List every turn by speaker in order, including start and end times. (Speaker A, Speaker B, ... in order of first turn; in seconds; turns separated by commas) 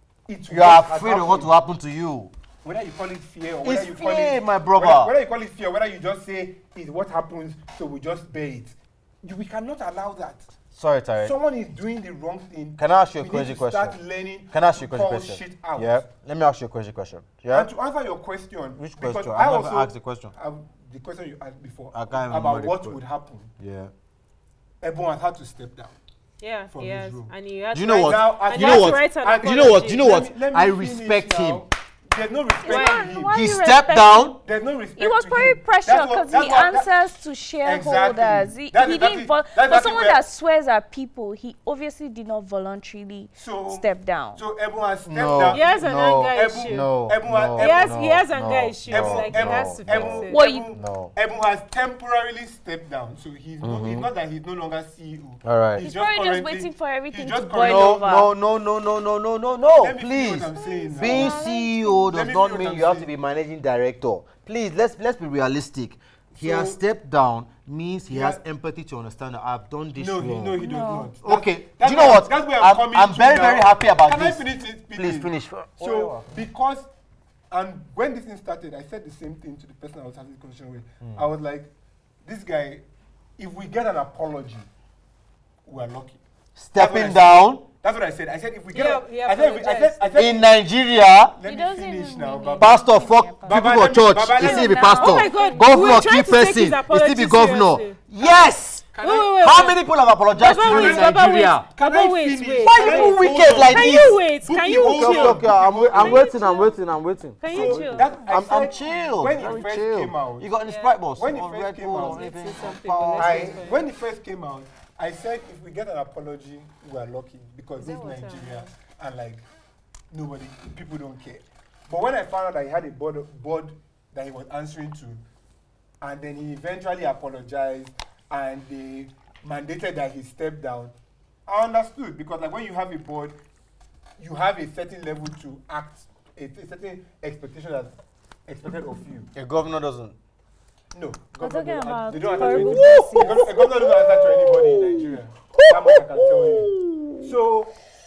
Speaker A: 0.3-1.5, Speaker B: 0.5-2.3, Speaker A: 2.6-10.5, Speaker B: 3.6-5.1, Speaker B: 10.7-11.3, Speaker A: 11.2-16.1, Speaker B: 12.8-14.0, Speaker B: 14.5-17.7, Speaker A: 17.5-23.5, Speaker B: 18.8-20.3, Speaker B: 21.9-23.0, Speaker B: 23.6-23.9, Speaker A: 24.8-26.0, Speaker C: 26.4-30.1, Speaker A: 26.7-27.3, Speaker B: 27.7-31.6, Speaker A: 28.0-33.3, Speaker D: 32.6-34.3, Speaker C: 32.7-33.0, Speaker B: 33.3-34.4, Speaker A: 34.4-37.1, Speaker D: 35.0-44.4, Speaker A: 37.6-40.2, Speaker A: 43.3-45.7, Speaker B: 45.0-51.1, Speaker C: 45.5-46.9, Speaker A: 46.3-47.9, Speaker C: 47.6-50.4, Speaker A: 48.9-58.0, Speaker D: 50.3-50.6, Speaker B: 53.6-54.1, Speaker B: 55.4-55.8, Speaker D: 55.8-58.3, Speaker B: 57.6-70.6, Speaker A: 59.8-61.5, Speaker D: 60.5-62.1, Speaker A: 62.1-63.1, Speaker A: 66.3-66.8, Speaker A: 68.1-68.4, Speaker A: 70.0-76.9, Speaker D: 70.6-71.1, Speaker B: 71.2-76.4, Speaker A: 77.5-81.7, Speaker B: 81.0-81.2, Speaker A: 82.2-82.8, Speaker A: 83.4-84.7, Speaker A: 85.7-86.2, Speaker B: 86.5-87.6, Speaker A: 86.7-90.6, Speaker C: 88.7-90.2, Speaker B: 90.1-91.3, Speaker A: 91.3-92.8, Speaker D: 91.5-96.1, Speaker B: 92.6-101.7, Speaker A: 93.5-95.1, Speaker C: 94.9-98.4, Speaker A: 98.9-99.3, Speaker C: 99.0-99.8, Speaker C: 100.3-106.7, Speaker A: 100.6-106.4, Speaker B: 102.6-104.2, Speaker B: 104.9-113.6, Speaker C: 107.4-108.1, Speaker A: 107.5-110.5, Speaker C: 110.7-110.9, Speaker A: 111.2-112.2, Speaker C: 111.9-113.9, Speaker A: 113.2-119.4, Speaker C: 117.8-118.7, Speaker A: 120.1-125.2, Speaker A: 126.0-130.9, Speaker A: 131.5-133.4, Speaker A: 134.2-139.3, Speaker B: 139.3-140.2, Speaker A: 140.9-147.7, Speaker D: 141.4-143.4, Speaker B: 142.3-147.3